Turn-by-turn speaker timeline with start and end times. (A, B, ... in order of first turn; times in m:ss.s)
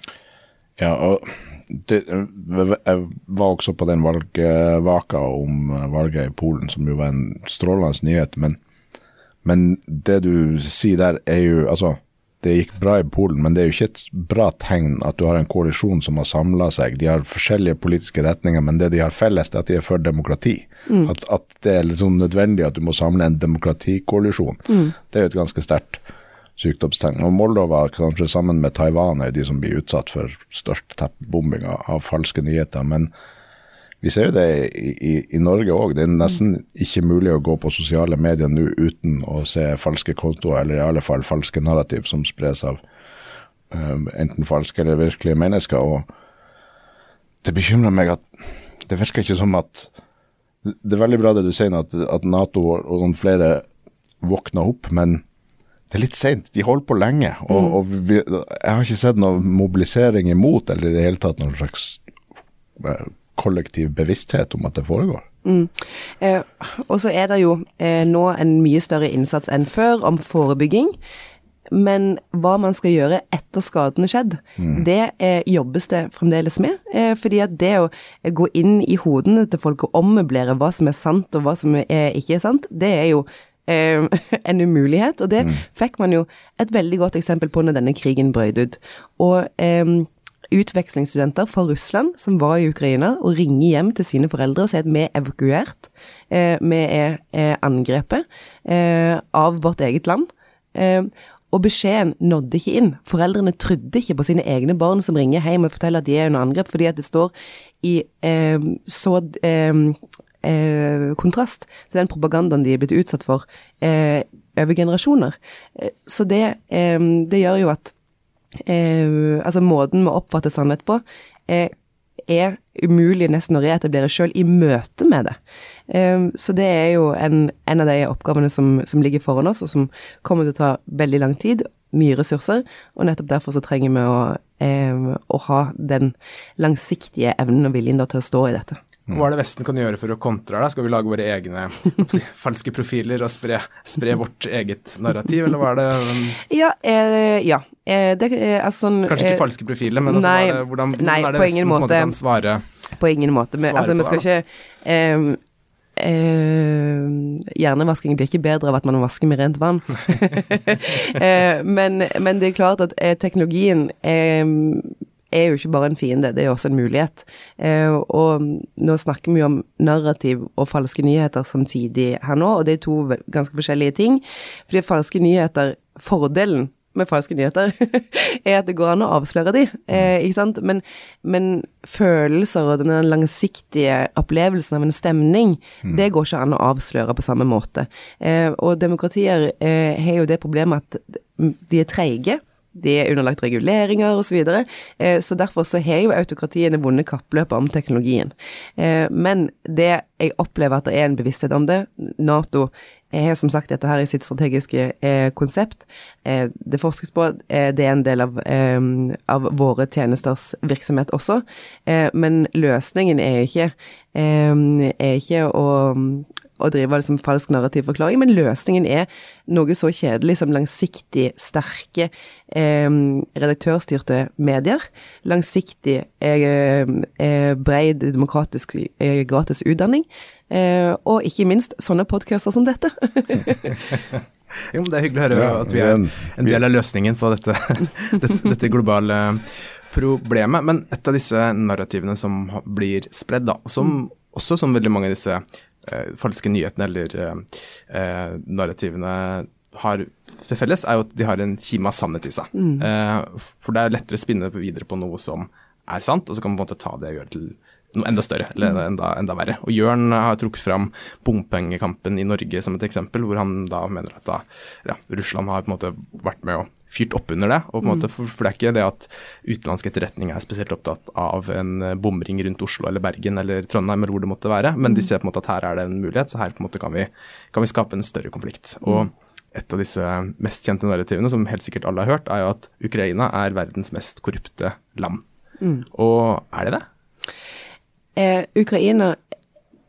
0:00.8-0:08.6 A
0:09.4-0:26.0 A
0:24.7-0:24.9 B
0:26.6-0:33.1 A
0:34.0-0:42.8 A
0:43.7-0:46.1 A
0:47.4-0:48.3 A
0:48.8-0:49.9 A
0:50.6-0:53.6 A
0:54.2-0:55.2 A
0:55.9-1:02.0 A
1:02.8-1:05.2 A
1:05.4-1:10.9 B
1:11.7-1:57.9 B
1:58.6-2:01.7 B
2:02.3-2:05.4 B
2:05.9-2:18.8 B
2:19.1-2:26.4 C
2:26.5-2:29.4 B
2:29.1-2:32.6 C
2:30.0-2:32.1 B
2:33.0-2:35.4 B
2:33.6-2:34.2 C
2:36.0-3:53.8 B
3:54.7-4:45.2 C
3:55.3-3:56.6 A
4:45.9-4:46.8 C
4:48.2-4:49.2 B